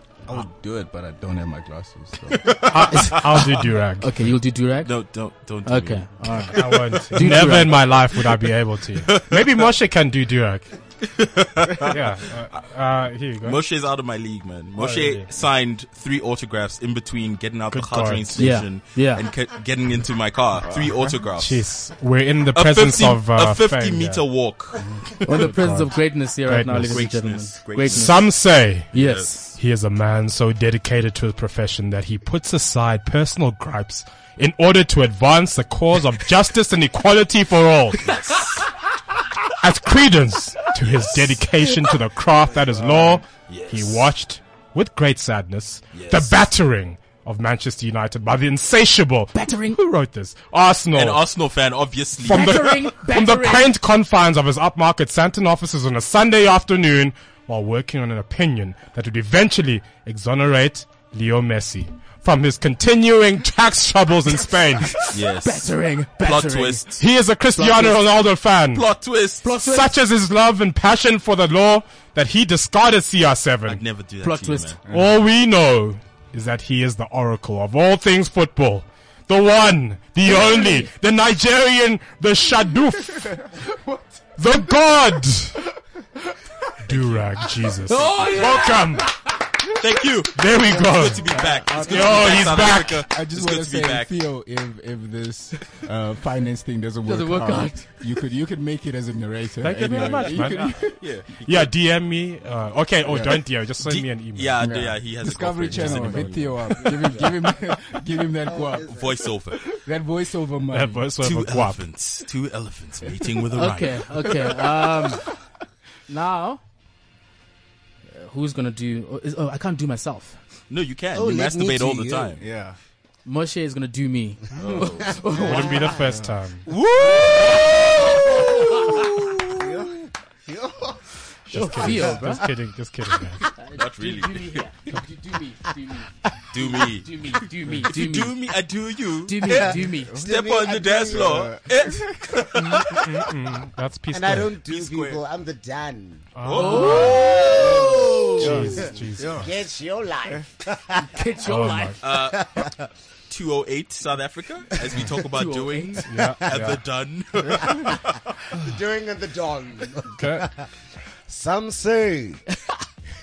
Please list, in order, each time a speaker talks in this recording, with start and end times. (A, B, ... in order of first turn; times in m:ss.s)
0:00.2-0:02.8 A
0:02.4-0:03.5 B
0:02.7-0:04.3 C
0:02.9-0:03.2 D
0:04.0-0:04.9 D
0:04.8-0:08.5 B
0:05.6-0:07.8 D
0:06.5-0:10.7 C
0:09.0-0:09.7 B
0:11.0-0:12.0 B
0:11.9-0:13.6 C
0:13.4-0:21.7 B
0:14.8-0:15.3 C
0:17.7-0:18.7 C
0:18.4-0:19.2 D
0:20.6-0:21.2 A
0:21.3-0:24.3 C
0:22.5-0:25.5 B
0:25.2-0:27.1 C
0:25.2-0:28.2 D
0:26.8-0:28.4 B
0:27.8-0:28.9 C
0:28.9-0:29.5 D
0:28.9-0:29.6 B
0:29.5-0:38.4 C
0:38.0-0:38.7 B
0:39.6-0:51.3 C
0:42.6-0:43.2 A
0:43.4-0:44.1 B
0:45.9-0:46.4 B
0:49.3-0:49.8 D
0:50.9-0:52.6 B
0:52.2-1:05.1 C
0:52.3-0:53.7 D
1:04.9-1:07.0 D
1:05.1-1:07.0 B
1:07.0-1:08.9 C
1:07.5-1:08.0 D
1:08.7-1:09.5 B
1:09.4-1:09.9 D
1:09.6-1:13.8 C
1:13.6-1:14.8 B
1:14.2-1:14.8 D
1:14.9-1:15.2 A
1:14.9-1:23.3 C
1:20.2-1:20.8 D
1:22.9-1:24.7 A
1:24.4-1:25.5 C
1:26.9-1:27.4 B
1:26.9-1:29.2 C
1:27.9-1:29.3 D
1:29.8-1:34.1 B
1:30.4-1:33.1 C
1:30.6-1:41.1 A
1:37.0-1:37.9 D
1:39.6-1:44.7 C
1:39.6-1:40.7 D
1:39.7-1:41.7 B
1:43.0-1:44.0 A
1:43.8-1:47.4 B
1:44.6-1:49.1 A
1:45.9-1:46.2 C
1:48.4-1:49.3 E
1:48.8-1:49.7 B
1:49.6-1:51.2 A
1:50.7-1:51.8 C
1:51.2-1:54.2 B
1:53.5-1:55.3 D
1:56.1-1:56.6 D
1:58.1-2:00.4 D
2:00.7-2:02.4 B
2:01.1-2:02.3 E
2:02.4-2:02.8 A
2:03.2-2:05.7 D
2:04.6-2:05.2 B
2:04.6-2:04.8 A
2:05.3-2:06.7 C
2:05.5-2:06.0 E
2:05.9-2:06.4 A
2:06.6-2:09.6 B
2:07.2-2:09.0 E
2:09.6-2:11.0 E
2:11.5-2:12.4 D
2:11.5-2:13.4 C
2:11.9-2:12.1 A
2:13.6-2:16.1 D
2:13.8-2:14.6 B
2:16.5-2:23.0 B
2:16.7-2:18.3 D
2:19.2-2:20.1 D
2:19.5-2:21.5 E
2:20.1-2:22.4 A
2:22.6-2:24.6 C
2:24.1-2:26.3 E
2:24.6-2:25.2 B
2:26.4-2:27.5 C
2:26.4-2:28.8 B
2:26.6-2:27.4 D
2:26.8-2:31.0 E
2:28.4-2:29.4 C
2:28.4-2:29.5 A
2:31.0-2:32.0 D
2:31.4-2:32.0 C
2:32.0-2:32.6 B
2:32.3-2:32.9 E
2:33.3-2:38.2 B
2:35.3-2:36.1 D
2:36.1-2:36.8 C
2:38.5-2:40.6 E
2:40.1-2:40.5 C
2:41.3-2:42.4 E